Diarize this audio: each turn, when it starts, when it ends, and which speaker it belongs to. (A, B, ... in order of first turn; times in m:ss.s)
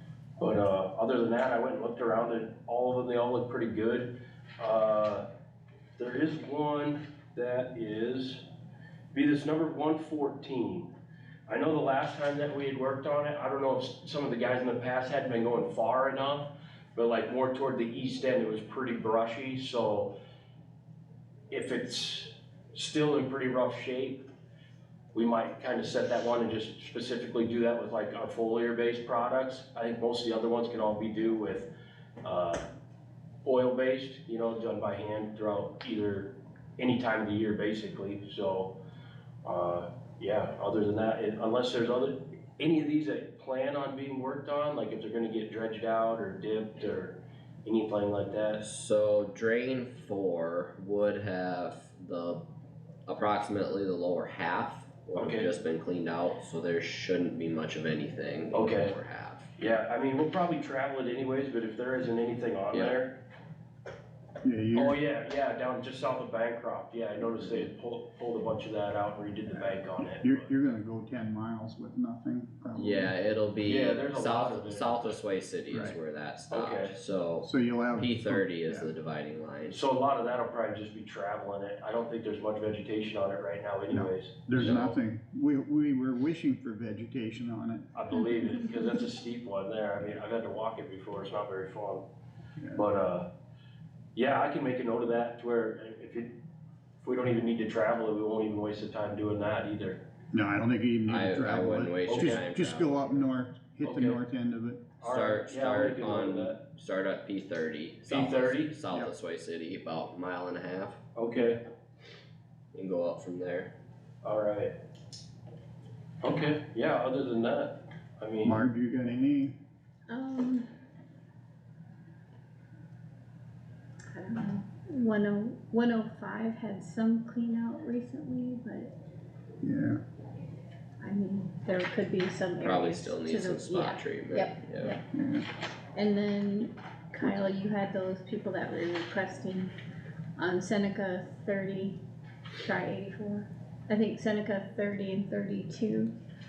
0:00.4-0:05.3 A
0:06.0-0:08.4 A
0:09.1-0:10.9 A
0:11.5-0:20.2 A
0:21.5-0:24.2 A
0:25.1-0:31.7 A
0:32.2-0:32.6 A
0:33.4-0:38.7 A
0:39.4-0:48.6 A
0:48.6-0:52.4 B
0:53.1-0:59.5 B
0:55.1-0:55.5 A
0:58.5-0:58.9 A
0:59.6-1:03.2 A
1:02.7-1:03.0 B
1:04.4-1:05.0 C
1:04.7-1:10.5 A
1:10.2-1:13.1 C
1:12.8-1:19.8 B
1:13.6-1:15.2 A
1:15.7-1:16.0 C
1:16.5-1:17.0 A
1:17.4-1:18.9 C
1:19.7-1:25.0 A
1:23.9-1:27.9 C
1:27.9-1:32.0 A
1:32.7-1:33.3 A
1:34.1-1:36.3 A
1:37.0-1:40.0 A
1:40.3-1:44.9 C
1:41.1-1:43.2 B
1:42.1-1:42.4 A
1:43.8-1:44.2 A
1:45.0-1:46.6 A
1:45.0-1:51.0 B
1:48.1-1:48.8 A
1:51.1-1:51.6 A
1:52.7-1:53.7 B
1:54.2-1:54.7 A
1:56.2-1:58.6 A
1:58.4-1:59.5 C
2:00.1-2:00.6 D
2:04.1-2:08.9 D
2:09.6-2:10.0 C
2:11.0-2:15.0 D
2:12.6-2:14.9 B
2:15.1-2:15.5 C
2:15.9-2:19.7 D
2:20.4-2:22.0 D
2:22.6-2:26.1 D